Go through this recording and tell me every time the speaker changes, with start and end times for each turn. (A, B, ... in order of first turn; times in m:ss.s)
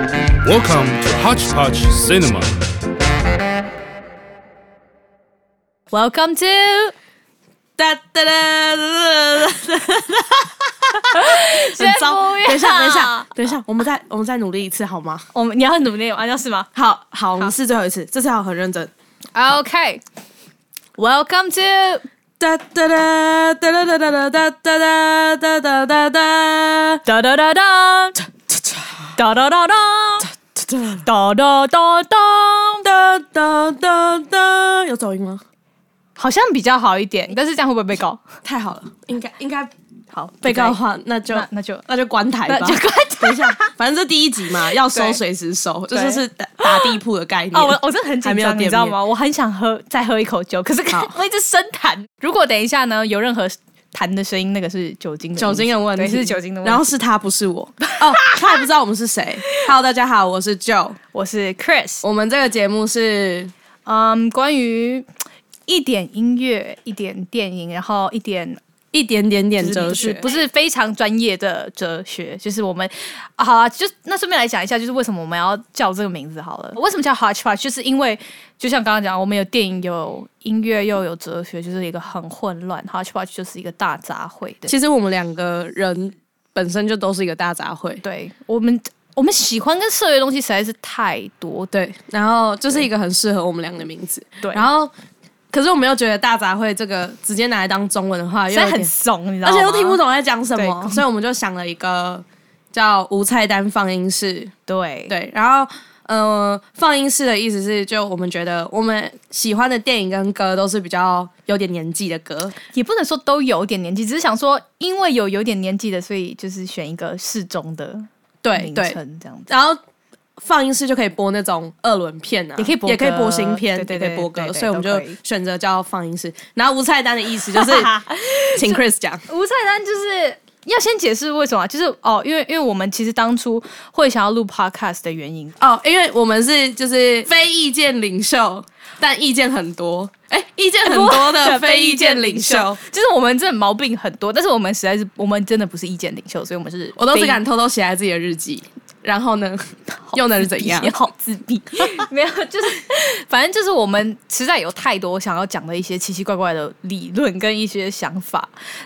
0:00.4-0:02.6 A
0:05.9-0:06.9 B
0:07.8-0:15.3 C
0:11.1-0:13.3 B
0:15.3-0:16.7 B
0:16.8-0:18.9 C
0:19.4-0:20.0 B
0:21.0-0:22.0 B
0:22.4-0:27.0 C
0:27.1-0:28.2 B
0:28.2-0:29.1 C
0:29.2-0:30.3 B
0:30.2-0:31.1 C
0:31.0-0:32.9 B
0:32.8-0:35.4 C
0:36.2-0:38.2 B
0:38.4-0:39.7 C
0:40.1-0:41.8 B
0:40.4-0:49.0 C
0:42.5-0:43.7 B
0:44.8-0:45.2 B
0:45.9-0:47.0 B
0:47.5-0:56.9 B
0:55.4-1:01.0 C
0:57.9-0:58.6 B
1:01.1-1:02.0 B
1:02.0-1:03.5 C
1:03.9-1:05.1 B
1:05.7-1:08.6 B
1:08.9-1:10.3 C
1:09.6-1:24.7 B
1:24.7-1:28.0 C
1:28.0-1:31.7 B
1:31.7-1:34.9 C
1:34.4-1:34.7 B
1:35.5-1:38.9 C
1:38.5-1:40.0 B
1:39.4-1:44.5 C
1:40.6-1:41.0 B
1:44.7-1:45.1 B
1:45.1-1:52.6 C
1:52.7-1:59.5 B
1:58.4-1:59.8 C
2:00.4-2:07.9 C
2:02.6-2:05.2 B
2:07.6-2:15.6 B
2:08.6-2:09.2 C
2:15.6-2:22.8 C
2:20.8-2:27.4 B
2:27.0-2:30.9 C
2:30.1-2:38.5 B